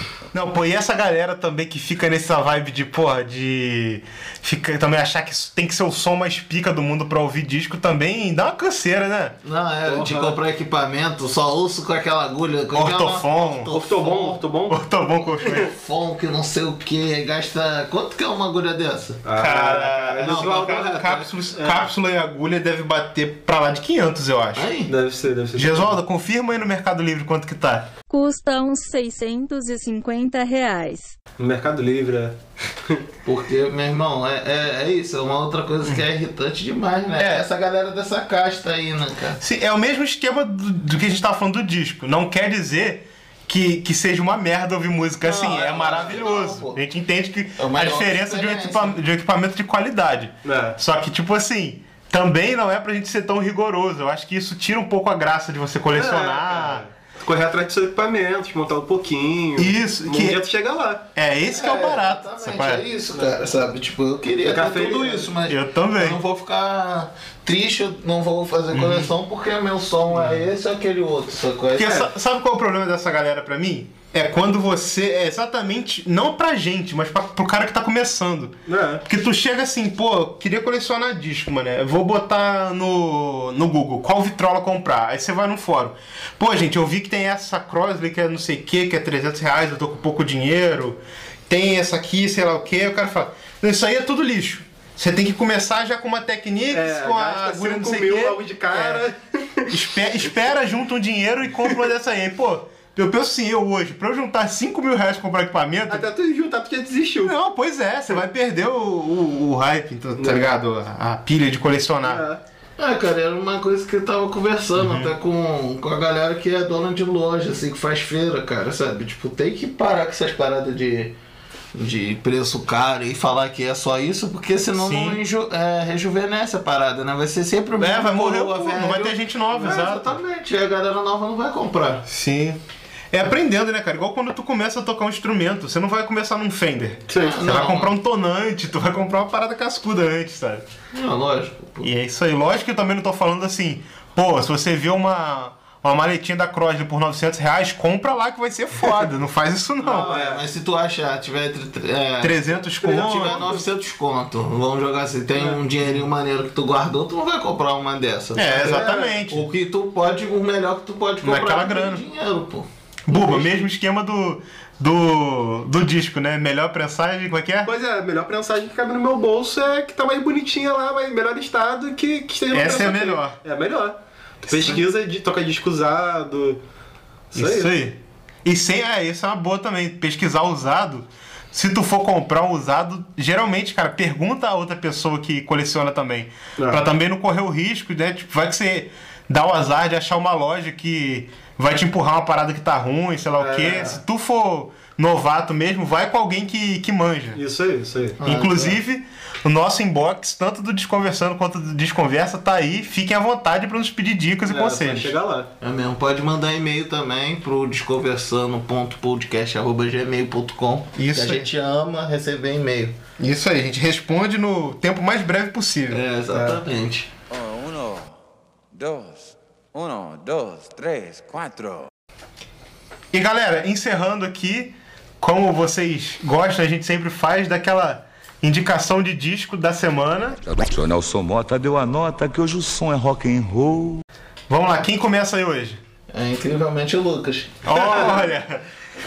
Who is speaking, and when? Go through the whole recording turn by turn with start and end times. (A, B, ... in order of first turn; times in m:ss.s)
0:00.3-0:09.4 A
0:09.4-0:14.4 B
0:09.8-0:10.4 C
0:12.7-0:13.7 A
0:13.7-0:14.8 C
0:14.7-0:15.7 A
0:15.5-0:19.2 B
0:19.2-0:21.8 C
0:19.4-0:24.7 A
0:20.2-0:20.8 B
0:24.6-0:24.9 B
0:24.9-0:26.0 C
0:25.6-0:27.9 A
0:28.1-0:31.1 D
0:31.4-0:32.4 C
0:33.2-0:39.4 B
0:37.2-0:37.5 A
0:39.4-0:56.8 A
0:45.2-0:46.8 B
0:47.6-0:49.0 B
0:50.4-0:50.8 C
0:55.9-1:01.0 C
0:59.6-1:00.4 A
1:01.1-1:02.8 A
1:01.5-1:12.1 B
1:04.4-1:05.3 C
1:05.5-1:06.2 A
1:08.7-1:09.1 A
1:11.8-1:39.0 A
1:18.7-1:19.0 C
1:36.7-1:39.7 C
1:39.7-1:46.1 A
1:45.9-1:47.4 C
1:47.2-1:52.2 A
1:50.2-1:50.5 C
1:52.0-1:52.4 C
1:52.8-2:01.1 B
1:54.8-1:55.1 A
2:01.7-2:12.0 B
2:04.7-2:05.2 A
2:07.8-2:10.2 A
2:12.1-2:20.6 A
2:17.1-2:17.4 C
2:17.1-2:17.9 B
2:20.9-2:21.9 B
2:21.8-2:30.1 A
2:29.9-2:42.7 B
2:29.9-2:30.4 C
2:32.2-2:33.5 A
2:32.8-2:33.6 C
2:38.3-2:39.5 A
2:38.6-2:39.2 C
2:41.2-2:42.0 A
2:43.1-2:47.7 A
2:43.1-2:43.5 C
2:47.6-2:56.6 C
2:52.5-2:53.4 A
2:54.5-2:54.8 A
2:57.3-2:57.7 C
2:57.3-3:17.4 A
3:06.6-3:06.8 C
3:13.4-3:14.0 C
3:17.4-3:18.2 C
3:18.2-3:18.8 B
3:18.2-3:25.1 A
3:24.4-3:25.5 C
3:25.6-3:33.0 B
3:31.0-3:31.5 A
3:33.2-3:36.0 A
3:35.9-3:37.1 B
3:36.3-3:36.6 C
3:37.3-3:38.0 E
3:38.7-3:41.8 E
3:43.1-3:50.4 A
3:50.5-3:54.0 F
3:54.5-3:55.8 A
3:56.1-3:58.0 B
3:57.6-3:58.6 A